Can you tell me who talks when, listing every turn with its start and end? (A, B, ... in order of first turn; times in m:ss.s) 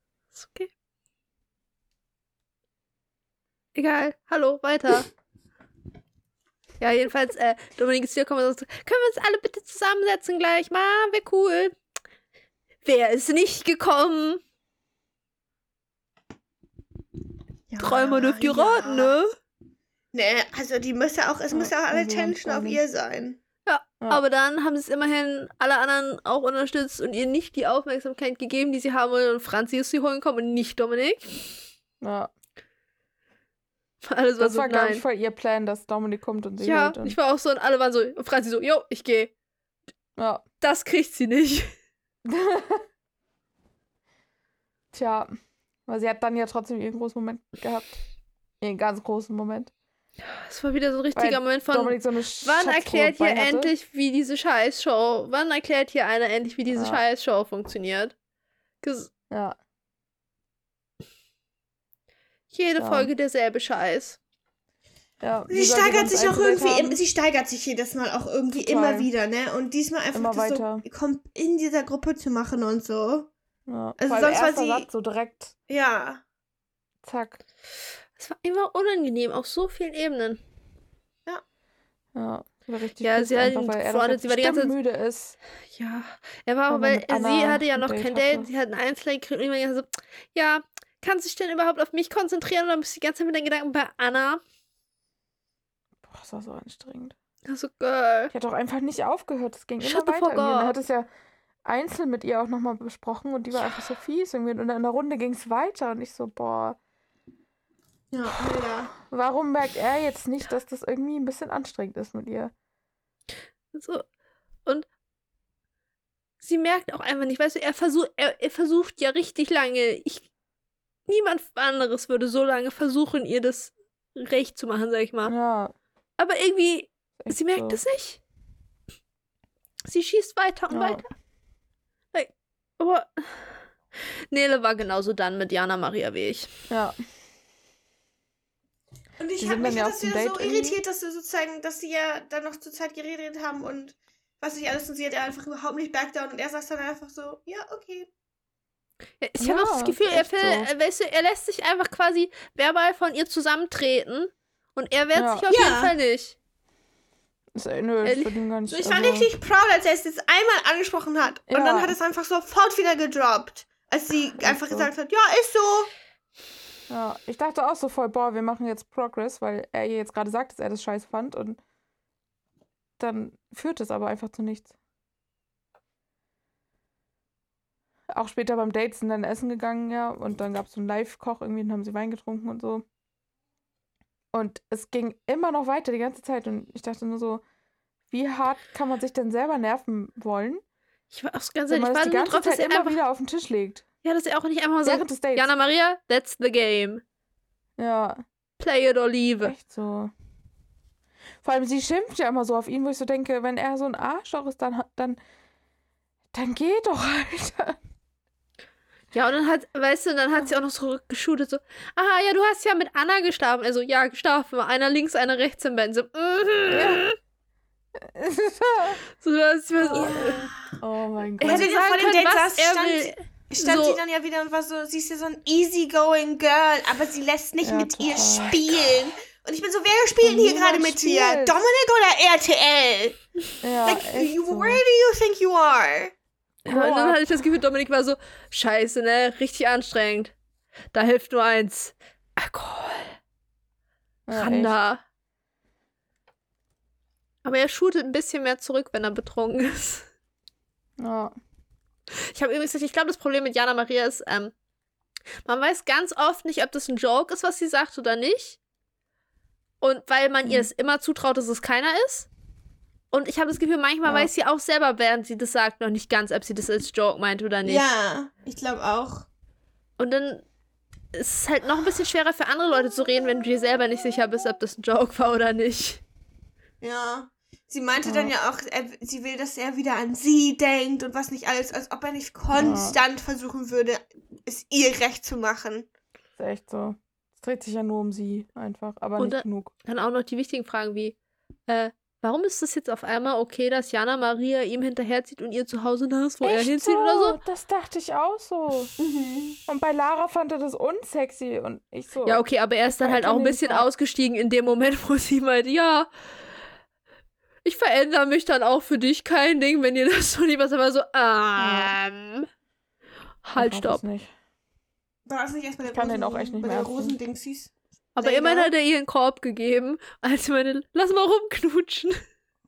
0:00.4-0:00.7 A
0:03.7-0:05.1 A
0:06.8-0:11.8 A
0:12.8-0:14.4 A
0:17.7-0:19.2 B
0:17.8-0:19.3 A
0:20.1-0:23.4 B
0:21.5-0:22.8 C
0:23.6-0:31.3 A
0:32.0-0:32.3 C
0:34.0-0:35.0 A
0:34.4-0:37.2 C
0:36.6-0:39.3 A
0:40.2-0:40.4 C
0:40.6-0:41.7 A
0:42.2-0:42.8 C
0:44.9-0:45.3 C
0:45.9-0:47.9 C
0:48.6-0:49.7 C
0:50.2-0:58.1 A
0:51.1-0:53.7 C
0:56.7-0:57.0 C
0:58.8-0:59.1 A
0:59.3-0:59.6 C
1:02.5-1:04.2 A
1:02.8-1:03.1 C
1:05.2-1:07.0 C
1:05.5-1:13.3 B
1:08.6-1:09.1 C
1:10.1-1:10.8 C
1:13.7-1:15.5 C
1:14.0-1:14.9 B
1:15.7-1:16.2 B
1:17.0-1:17.4 C
1:18.2-1:20.4 A
1:22.1-1:25.4 C
1:23.0-1:24.7 A
1:25.7-1:34.4 A
1:26.7-1:28.5 C
1:36.0-1:37.1 C
1:37.5-1:38.3 A
1:38.3-1:41.1 C
1:39.8-1:40.8 A
1:41.6-1:46.8 C
1:48.1-1:48.9 B
1:49.0-1:52.5 C
1:53.7-1:54.0 A
1:56.4-2:00.2 A
2:01.1-2:05.3 A
2:05.2-2:05.7 C
2:06.2-2:08.2 A
2:07.2-2:07.8 C
2:09.9-2:11.1 A
2:10.7-2:11.0 C
2:12.1-2:13.5 A
2:14.3-2:16.5 A
2:16.7-2:17.0 C
2:19.2-2:28.1 B
2:19.4-2:20.8 C
2:29.2-2:36.4 A
2:29.4-2:30.7 C
2:35.1-2:35.5 C
2:35.5-2:35.9 B
2:37.6-2:39.3 C
2:38.0-2:38.3 A
2:38.7-2:45.9 B
2:41.5-2:42.0 C
2:44.4-2:44.9 C
2:46.9-2:51.6 C
2:53.0-2:54.7 C
2:58.1-3:02.8 C
3:04.3-3:07.4 C
3:08.1-3:10.6 C
3:11.1-3:13.0 A
3:11.7-3:13.8 C
3:14.0-3:17.0 A
3:14.8-3:15.5 C
3:17.8-3:18.2 C
3:18.6-3:19.5 A
3:19.4-3:20.1 C
3:21.4-3:25.2 C
3:26.3-3:27.8 C
3:29.1-3:37.1 A
3:36.7-3:37.0 C
3:38.0-3:39.0 C
3:39.2-3:40.5 A
3:39.9-3:40.8 B
3:39.9-3:41.7 C
3:41.4-3:53.2 B
3:41.4-3:44.0 A
3:47.6-3:48.6 C
3:50.2-3:51.5 C
3:53.6-3:54.8 C
3:53.8-3:56.1 B
3:56.6-4:00.3 A
3:56.7-3:57.2 C
4:00.9-4:03.2 A
4:04.3-4:04.7 C
4:04.3-4:05.0 A
4:07.4-4:10.1 A
4:11.0-4:11.3 C
4:12.1-4:14.5 A
4:15.4-4:18.6 A
4:19.8-4:22.3 A
4:23.1-4:27.8 A
4:24.0-4:24.3 C
4:27.6-4:29.3 B
4:30.0-4:30.4 A
4:31.1-4:36.0 A
4:36.8-4:45.9 B
4:38.0-4:38.3 C
4:42.5-4:43.0 C
4:46.4-4:49.7 C
4:49.2-4:51.1 A
4:51.7-4:57.4 A
4:56.4-4:58.9 C
4:59.0-4:59.6 B
4:59.7-5:03.9 C
5:02.2-5:06.1 A
5:07.6-5:12.5 A
5:11.6-5:11.9 C
5:13.4-5:14.0 A
5:13.6-5:14.3 C
5:15.2-5:18.7 B
5:15.9-5:17.1 C
5:18.2-5:22.2 A